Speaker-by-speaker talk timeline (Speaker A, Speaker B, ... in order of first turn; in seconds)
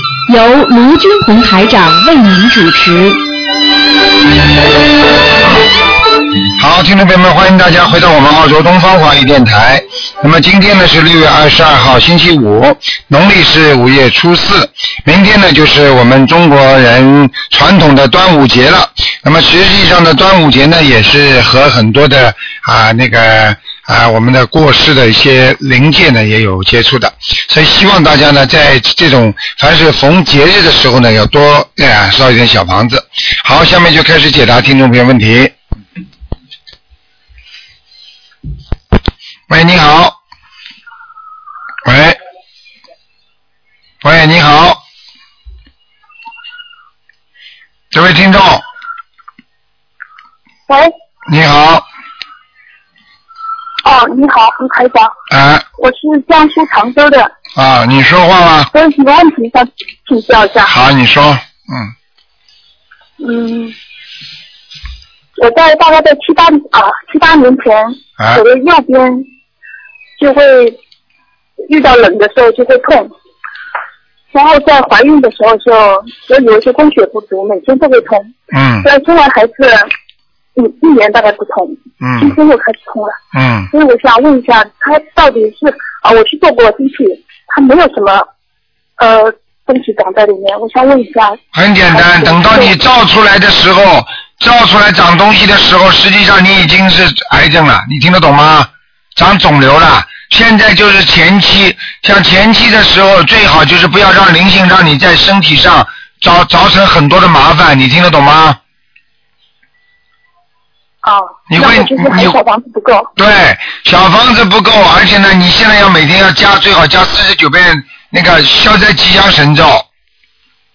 Speaker A: 0.3-3.2
Speaker B: 6.6-35.5, 39.5-40.1, 41.8-42.2, 44.0-44.8, 47.9-48.6, 51.2-51.8, 55.3-55.6, 57.5-58.7, 60.7-61.9, 68.2-68.4, 78.5-78.9, 82.0-82.4, 83.3-83.7, 91.5-108.6, 111.5-112.4, 113.2-119.8
Speaker C: 53.8-55.1, 55.8-57.3, 58.7-60.7, 63.2-63.7, 65.4-69.3, 70.2-70.8, 71.7-73.1, 74.3-79.9, 80.5-83.2, 83.7-88.3, 89.0-91.4, 91.9-92.8, 111.0-113.1